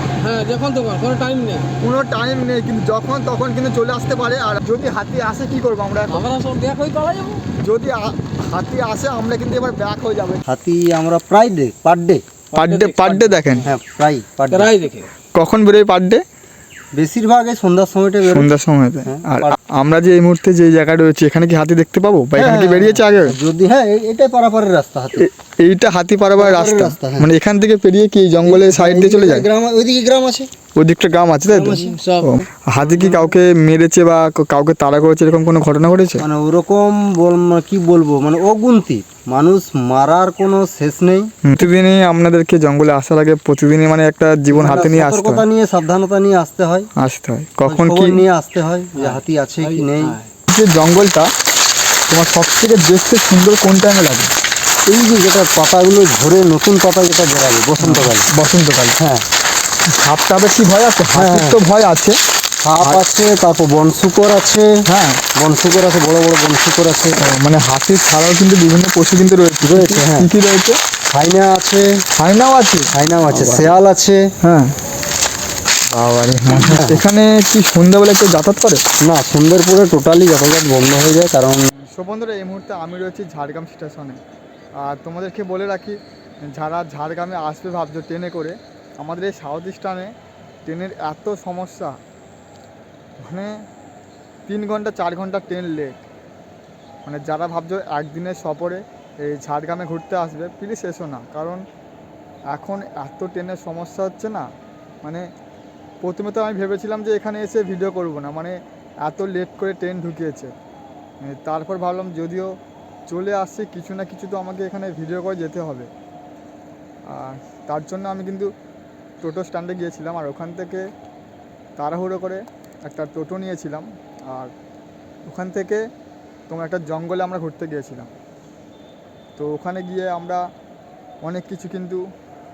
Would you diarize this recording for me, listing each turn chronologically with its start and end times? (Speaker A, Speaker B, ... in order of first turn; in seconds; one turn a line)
Speaker A: 0.2-1.7
Speaker B: 1.8-6.2
Speaker A: 6.1-7.5
Speaker B: 7.6-10.4
Speaker C: 10.4-12.2
Speaker A: 12.5-13.7
Speaker B: 12.5-13.7
Speaker C: 13.6-14.7
Speaker A: 14.5-15.1
Speaker B: 15.3-16.2
Speaker C: 16.9-18.5
Speaker B: 18.2-23.4
Speaker C: 19.1-19.5
Speaker C: 22.4-25.3
Speaker B: 25.2-29.5
Speaker C: 26.4-27.3
Speaker C: 28.4-30.5
Speaker B: 30.8-36.2
Speaker C: 31.5-32.0
Speaker A: 31.6-32.4
Speaker A: 33.0-33.3
Speaker C: 36.2-41.3
Speaker B: 41.4-45.5
Speaker C: 44.5-46.9
Speaker B: 47.0-48.2
Speaker C: 47.6-50.2
Speaker A: 49.0-50.3
Speaker B: 50.5-51.3
Speaker B: 52.1-54.3
Speaker C: 54.9-58.3
Speaker B: 57.8-59.0
Speaker C: 59.0-59.2
Speaker B: 59.9-62.2
Speaker C: 61.1-61.6
Speaker C: 62.6-64.8
Speaker B: 64.9-65.2
Speaker C: 65.4-67.2
Speaker B: 67.2-70.8
Speaker C: 69.6-70.3
Speaker C: 71.1-72.0
Speaker B: 72.2-73.7
Speaker C: 72.9-74.3
Speaker B: 74.4-74.8
Speaker B: 75.9-78.8
Speaker C: 76.5-77.0
Speaker C: 79.0-81.7
Speaker B: 81.8-84.2
Speaker B: 84.8-90.1
Speaker B: 90.7-92.0
Speaker B: 93.2-93.6
Speaker B: 94.5-96.0
Speaker B: 97.0-101.6
Speaker B: 102.5-104.5
Speaker B: 105.0-105.3
Speaker B: 106.0-110.5
Speaker B: 111.2-112.5
Speaker B: 113.1-115.9
Speaker B: 117.1-118.5
Speaker B: 119.2-120.9
Speaker B: 121.8-124.5
Speaker B: 125.3-125.8
Speaker B: 126.5-128.1
Speaker B: 129.4-130.5
Speaker B: 131.2-132.0